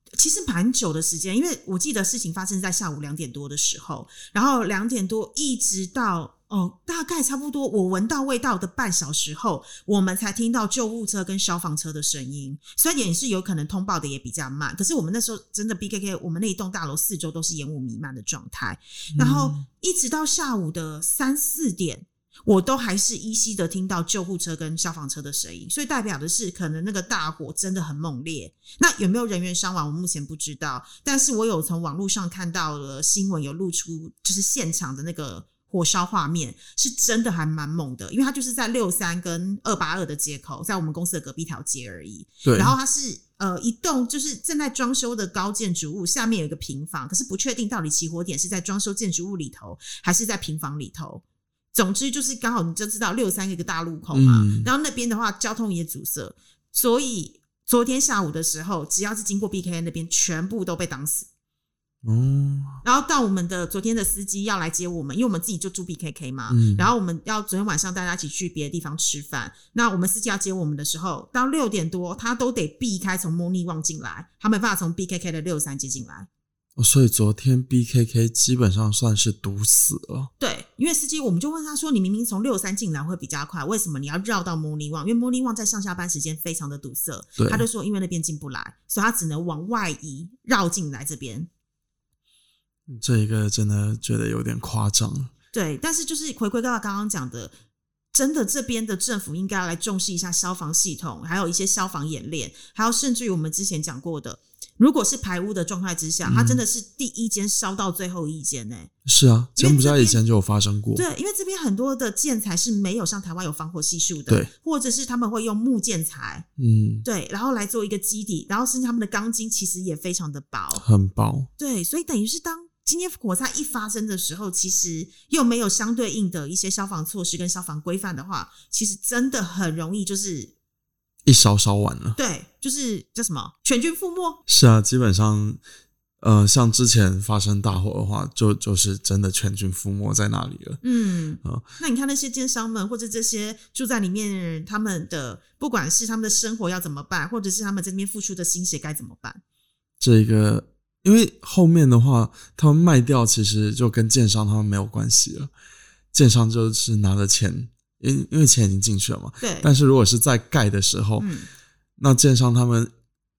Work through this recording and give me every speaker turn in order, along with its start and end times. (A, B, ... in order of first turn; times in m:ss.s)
0:00.2-1:01.3 A
0:19.1-0:19.6 B
0:42.4-0:42.7 B
0:54.1-0:54.7 B
1:02.0-1:02.8 B
1:02.8-1:16.3 A
1:06.5-1:06.9 B
1:16.8-1:20.3 B
1:20.4-1:31.5 A
1:27.4-1:27.6 B
1:32.9-1:35.3 B
1:35.5-1:37.5 A
1:38.1-1:48.9 A
1:46.2-1:46.6 B
1:49.0-1:51.0 B
1:49.6-1:50.2 A
1:50.9-1:56.4 A
1:56.6-1:57.0 B
1:57.0-2:00.8 A
2:00.8-2:01.5 B
2:01.6-2:10.5 A
2:11.2-2:12.2 B
2:12.2-2:14.4 A
2:14.5-2:15.6 B
2:16.2-2:20.8 B
2:20.8-2:29.4 A
2:30.0-2:35.5 B
2:36.1-2:41.3 B
2:39.4-2:39.7 A
2:41.2-2:41.5 A
2:42.0-2:42.9 B